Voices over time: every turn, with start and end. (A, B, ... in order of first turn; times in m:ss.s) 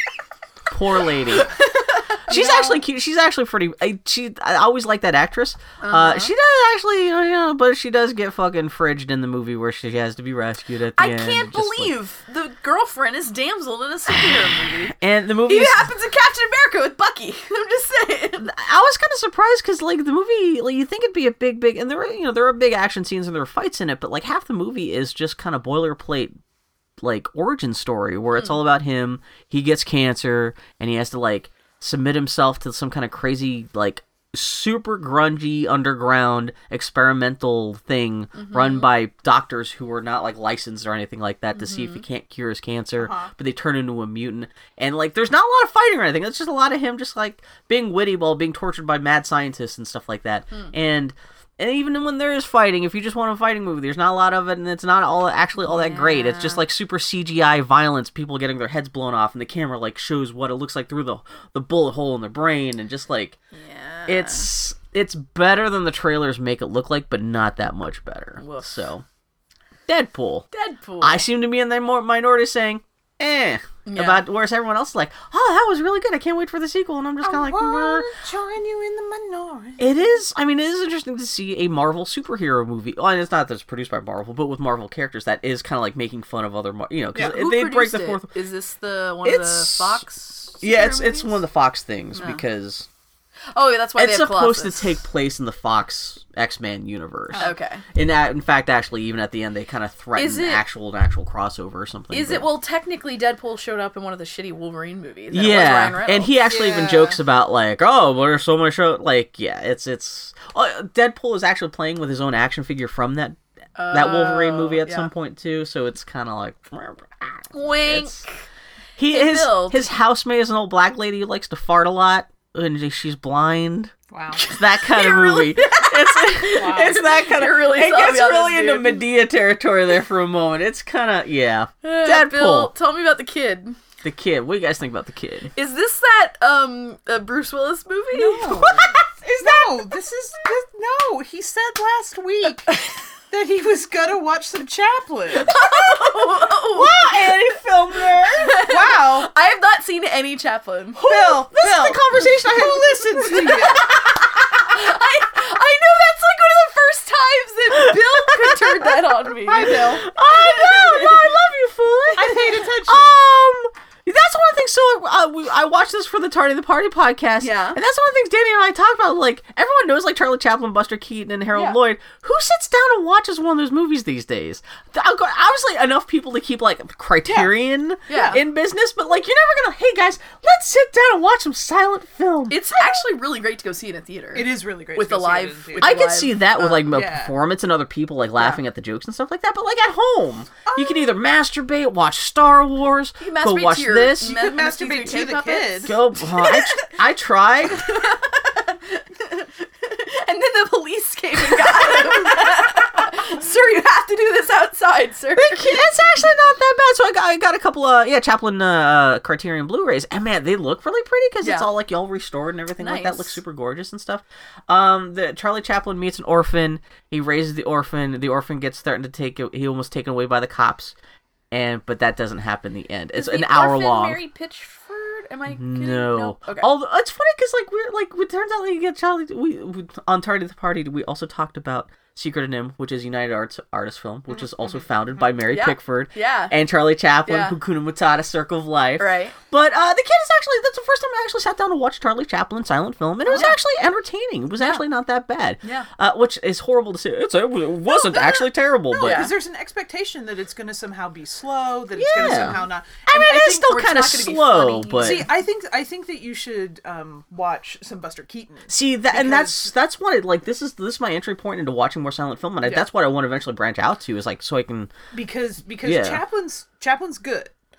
0:00.7-0:01.5 A
0:01.3-0:02.2 B
0:02.3-0:11.9 A
0:02.3-0:02.8 C
0:05.8-0:06.3 B
0:11.0-0:18.5 B
0:14.9-0:15.9 A
0:18.4-0:26.3 A
0:27.0-1:03.4 A
0:38.3-0:38.9 B
0:41.6-0:42.0 B
0:43.0-0:43.3 C
0:55.6-0:56.6 B
1:03.5-1:04.5 B
1:04.1-1:09.0 A
1:08.4-1:08.8 B
1:09.9-1:10.5 A
1:10.5-1:11.2 B
1:11.0-1:18.1 A
1:13.9-1:14.2 B
1:17.2-1:20.0 C
1:19.8-1:28.3 A
1:27.2-1:31.4 B
1:29.2-1:30.0 A
1:30.6-1:32.9 A
1:32.2-1:32.4 B
1:33.5-1:34.9 B
1:34.0-1:42.5 A
1:37.4-1:37.8 B
1:40.2-1:40.6 B
1:42.1-1:46.3 B
1:45.3-1:53.4 A
1:46.4-1:47.2 C
1:53.8-1:55.1 B
1:53.9-1:58.2 A
1:57.5-1:58.4 B
1:59.0-2:12.7 A
1:59.1-1:59.9 B
2:04.1-2:04.5 C
2:04.4-2:09.0 B
2:06.5-2:07.1 C
2:11.8-2:13.8 B
2:14.0-2:15.5 A
2:15.5-2:18.8 B
2:18.1-2:22.7 C
2:18.7-2:19.0 A
2:22.7-2:23.0 B
2:23.3-2:25.6 C
2:25.3-2:27.1 B
2:26.7-2:28.6 A
2:28.3-2:31.0 B
2:28.5-2:29.3 C
2:31.0-2:34.4 A
2:31.0-2:33.9 C
2:33.7-2:41.3 B
2:38.4-2:38.7 A
2:39.4-2:40.1 C
2:39.5-3:03.0 A
2:42.1-2:43.2 C
2:47.4-2:47.8 B
2:51.5-2:51.8 B
2:57.2-2:57.5 C
2:58.1-2:58.4 B
2:58.1-2:58.4 C
3:02.5-3:06.4 B
3:04.3-3:07.3 C
3:05.8-3:14.5 A
3:10.6-3:11.1 C
3:13.2-3:16.9 B
3:14.2-3:16.0 C
3:15.8-3:18.1 A
3:17.8-3:26.1 B
3:21.6-3:22.4 A
3:25.4-3:41.0 A
3:31.4-3:31.7 B
3:32.8-3:33.4 B
3:41.5-3:44.2 A
3:43.2-3:46.7 B
3:45.5-4:09.3 A
3:54.3-3:55.2 C
3:55.5-3:56.6 B
3:57.2-3:57.6 B
3:59.0-3:59.4 B
4:03.3-4:03.6 B
4:04.6-4:04.8 B
4:05.6-4:05.9 B
4:07.9-4:09.3 B
4:08.9-4:13.6 C
4:12.0-4:15.3 A
4:12.1-4:12.7 B
4:13.3-4:15.3 B
4:15.0-4:19.7 C
4:18.7-4:24.9 A
4:22.6-4:22.9 C
4:25.1-4:27.5 C
4:25.8-4:26.2 A